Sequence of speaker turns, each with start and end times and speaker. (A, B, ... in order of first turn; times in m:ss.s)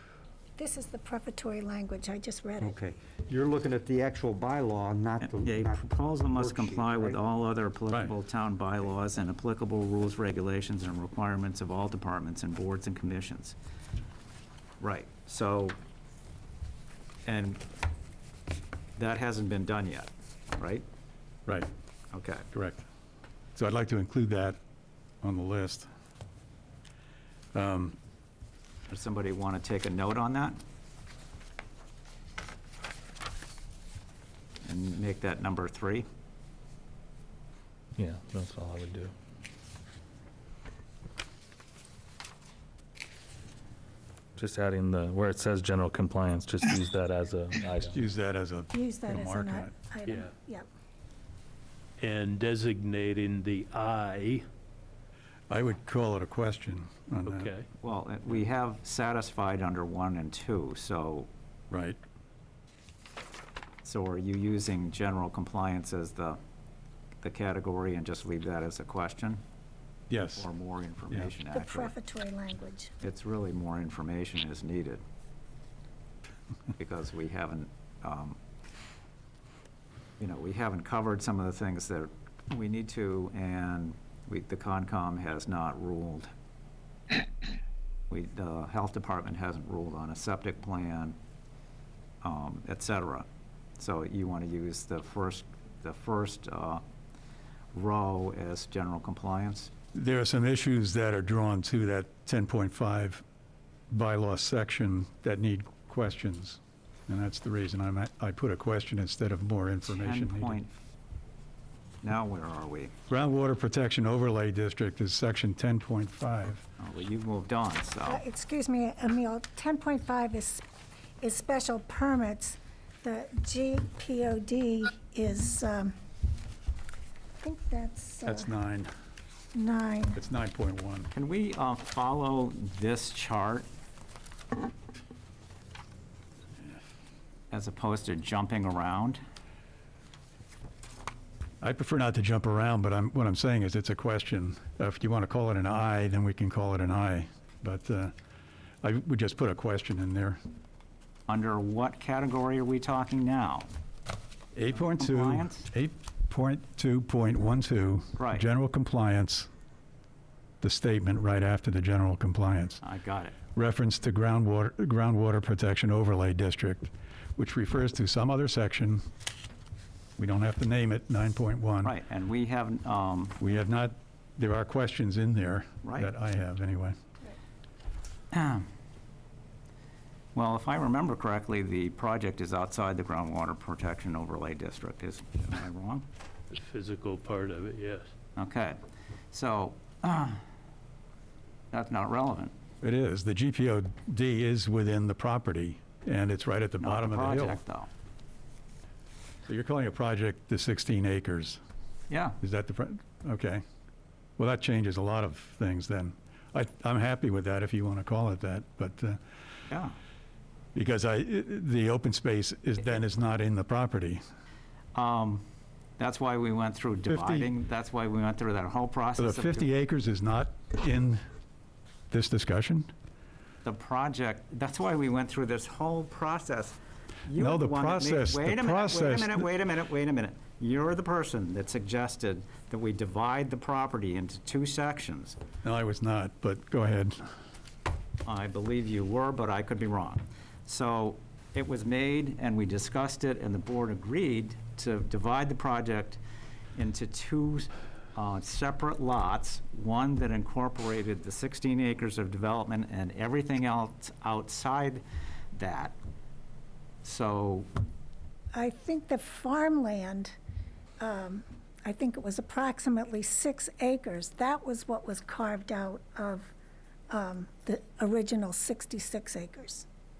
0:00.6-0:02.8 A
0:02.6-0:07.2 B
0:05.2-0:13.6 C
0:14.8-0:15.8 C
0:17.3-0:17.6 C
0:19.0-0:20.8 C
0:22.1-0:22.5 C
0:22.5-0:22.9 D
0:23.6-0:24.6 D
0:25.2-0:25.9 D
0:27.5-0:28.0 D
0:28.9-0:30.6 C
0:34.6-0:36.1 C
0:38.0-0:39.1 E
0:44.4-0:48.0 E
0:47.9-0:49.7 D
0:48.7-0:50.7 A
0:50.0-0:50.3 F
0:52.0-0:54.4 F
0:55.5-0:57.5 D
0:57.3-0:57.7 F
0:57.8-1:01.3 C
1:01.7-1:02.0 D
1:03.8-1:06.4 C
1:07.2-1:09.4 C
1:10.1-1:10.5 D
1:10.4-1:11.9 C
1:11.5-1:12.9 A
1:13.0-1:15.0 C
1:16.8-1:18.4 C
1:20.2-1:26.3 C
1:28.1-1:31.2 C
1:32.2-1:33.3 C
1:33.8-1:36.8 C
1:37.7-1:39.7 C
1:39.9-1:43.2 D
1:43.9-1:50.6 D
1:49.9-1:50.7 C
1:52.0-1:52.9 C
1:53.1-1:56.6 D
1:56.8-1:58.2 C
1:58.1-2:00.6 A
2:01.2-2:06.0 A
2:07.4-2:08.5 A
2:08.3-2:08.9 D
2:09.5-2:10.2 A
2:10.2-2:11.1 D
2:11.1-2:13.7 C
2:17.5-2:19.2 C
2:21.6-2:28.1 D
2:28.8-2:30.4 D
2:31.3-2:33.7 C
2:34.6-2:39.5 D
2:35.0-2:35.7 C
2:38.2-2:38.5 C
2:40.6-2:42.8 D
2:42.8-2:43.4 C
2:43.6-2:49.0 D
2:50.2-2:51.9 D
2:51.8-2:53.4 C
2:53.4-2:57.0 D
2:55.8-2:56.1 C
2:58.3-2:58.7 C
3:00.4-3:06.0 C
3:06.5-3:08.1 F
3:08.4-3:08.8 C
3:09.3-3:10.4 C
3:11.7-3:12.5 C
3:12.8-3:17.6 D
3:16.8-3:17.9 C
3:19.5-3:21.6 D
3:22.1-3:22.4 C
3:22.4-3:23.6 D
3:24.4-3:29.2 D
3:30.8-3:34.2 D
3:35.0-3:35.4 C
3:36.0-3:39.7 C
3:37.1-3:37.5 D
3:39.2-3:41.2 D
3:42.1-3:42.9 D
3:43.6-3:55.4 C
3:47.4-3:49.4 D
3:55.6-3:57.3 D
3:58.2-4:06.2 C
4:06.8-4:15.0 C
4:15.5-4:16.0 C
4:17.0-4:17.7 C
4:18.5-4:20.4 A
4:21.0-4:26.5 A
4:27.1-4:29.9 A